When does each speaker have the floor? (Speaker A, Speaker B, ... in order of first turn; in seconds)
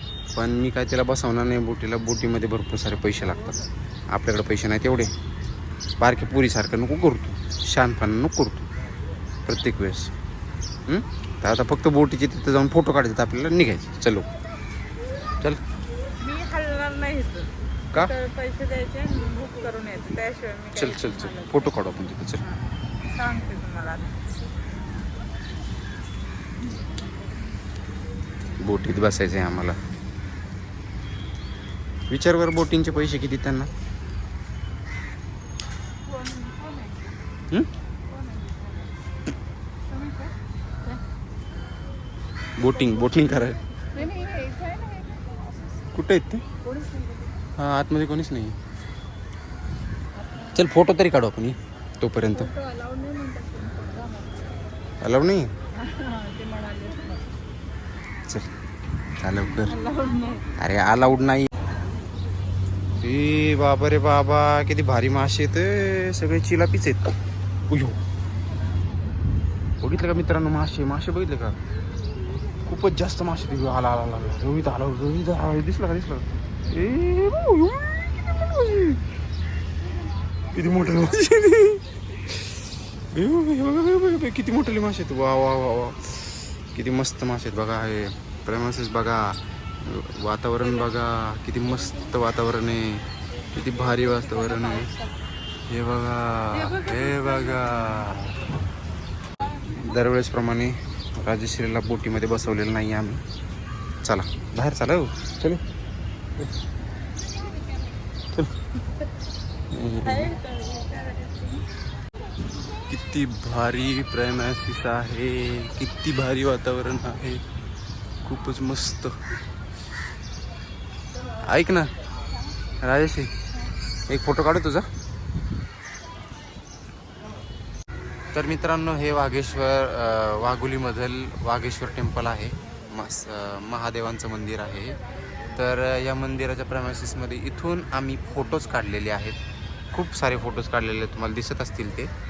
Speaker A: 0.3-5.1, 6.0-8.7, 9.4-10.1, 10.9-14.2, 20.7-22.4, 28.6-29.8, 32.1-33.7, 42.6-43.6, 45.9-46.4, 47.6-48.5, 50.5-52.5, 55.0-55.5, 59.2-59.8, 60.5-61.5, 63.0-67.1, 67.7-68.0, 69.8-71.5, 72.6-79.0, 80.5-82.5, 83.1-94.9, 95.7-98.5, 99.4-103.2, 104.0-105.6, 109.7-110.3, 112.9-117.4, 118.2-119.2, 121.4-121.9, 122.8-123.3, 124.1-124.9, 128.3-135.0, 135.5-139.4, 139.9-142.1
Speaker B: 16.2-21.8, 23.2-24.1, 36.1-37.1, 38.1-38.9, 39.9-40.3, 43.9-45.2, 46.6-47.1, 52.5-54.4, 55.9-57.2, 59.7-60.4, 96.7-97.8, 110.0-111.6